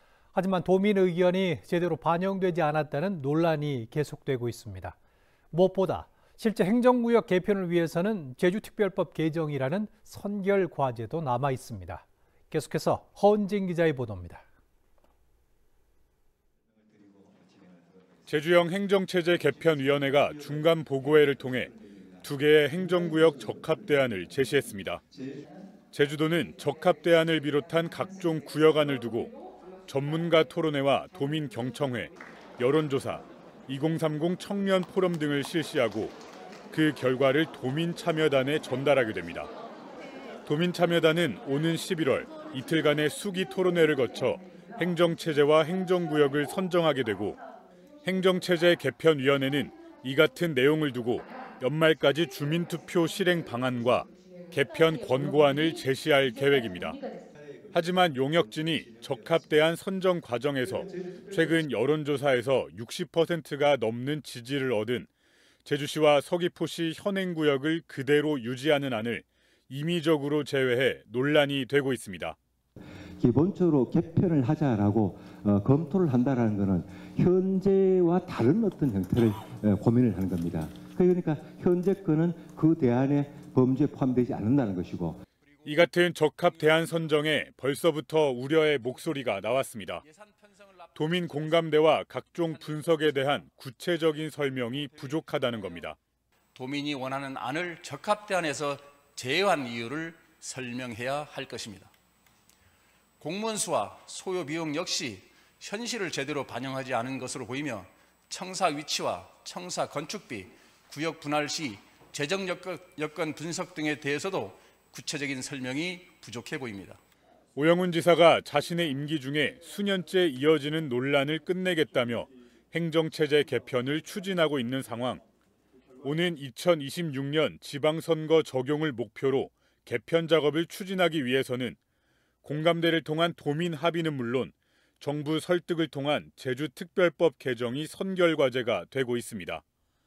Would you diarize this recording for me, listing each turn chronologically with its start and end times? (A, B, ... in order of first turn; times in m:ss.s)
0:00.3-0:05.0 A
0:05.5-0:14.4 A
0:18.3-0:25.0 B
0:25.9-0:29.3 B
0:29.9-0:36.2 B
0:36.7-0:39.5 B
0:40.4-0:47.4 B
0:48.0-0:57.0 B
0:57.7-1:05.1 B
1:05.6-1:12.4 B
1:13.2-1:25.2 C
1:25.6-1:30.0 B
1:30.0-1:31.7 D
1:31.0-1:36.0 B
1:32.7-1:33.0 D
1:36.5-1:41.9 D
1:43.2-1:57.0 D
1:57.6-2:05.2 B
2:06.0-2:11.8 B
2:12.4-2:19.6 B